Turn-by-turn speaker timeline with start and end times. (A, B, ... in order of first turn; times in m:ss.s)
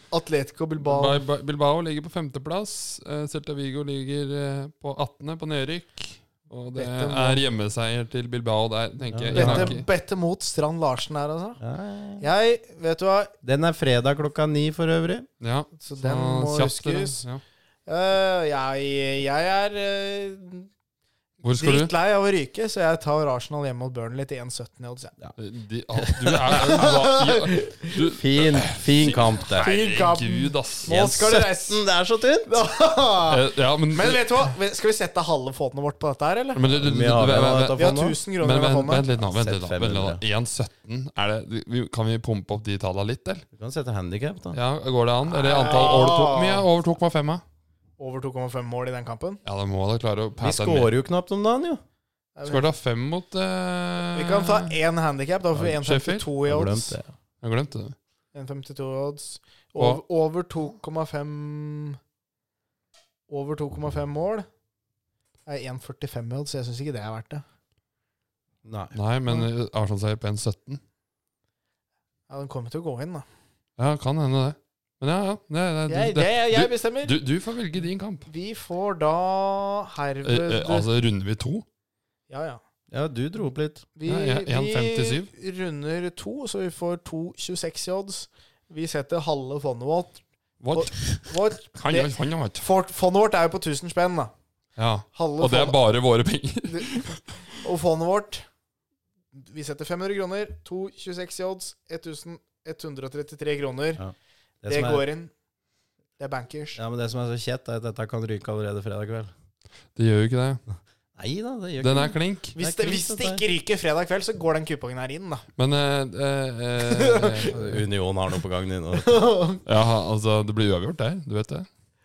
0:00.1-0:01.2 A
0:00.8-0:09.8 B
0:06.7-0:07.4 A
0:09.1-0:09.8 C
0:09.3-0:11.6 A
0:11.6-0:12.2 C
0:12.2-0:13.3 A
0:13.4-0:15.3 C
0:15.4-0:17.4 B
0:15.8-0:17.2 A
0:17.9-0:20.7 A
0:21.4-0:21.9 B
0:21.6-0:25.1 A
0:25.4-0:30.9 B
0:26.0-0:26.6 C
0:26.5-0:27.9 A
0:28.2-0:29.7 C
0:29.6-0:31.8 A
0:30.9-0:32.5 C
0:32.4-0:36.6 A
0:33.3-0:34.2 B
0:36.5-0:37.8 B
0:36.7-0:38.2 C
0:37.7-0:39.1 A
0:38.4-0:43.4 B
0:39.2-0:40.2 C
0:43.5-0:44.6 C
0:44.5-0:47.4 B
0:45.4-0:46.6 A
0:48.0-0:49.4 A
0:49.4-0:50.9 B
0:50.4-0:51.8 C
0:52.4-0:52.7 A
0:52.4-0:54.7 B
0:54.1-0:57.0 A
0:55.7-0:56.3 B
0:56.4-0:57.1 C
0:57.4-0:57.9 B
0:58.3-1:02.0 A
1:03.3-1:04.5 A
1:05.4-1:07.4 A
1:08.6-1:09.0 C
1:08.9-1:10.8 B
1:12.3-1:13.2 A
1:13.8-1:18.3 B
1:15.9-1:17.2 A
1:18.3-1:20.9 A
1:20.2-1:21.6 B
1:22.3-1:22.6 A
1:22.9-1:23.8 C
1:24.0-1:34.3 A
1:24.1-1:25.3 B
1:30.6-1:32.7 B
1:34.8-1:37.3 B
1:35.1-1:35.8 A
1:36.6-1:38.4 A
1:39.3-1:44.0 A
1:44.0-1:45.0 C
1:44.7-1:45.3 A
1:46.2-1:46.8 A
1:46.8-1:49.3 C
1:49.9-1:50.6 B
1:51.2-1:53.4 C
1:51.8-1:52.6 B
1:52.6-1:55.4 A
1:55.6-1:57.8 B
1:56.8-1:57.5 A
1:57.5-1:59.2 C
1:58.9-1:59.6 A
1:59.6-2:01.7 B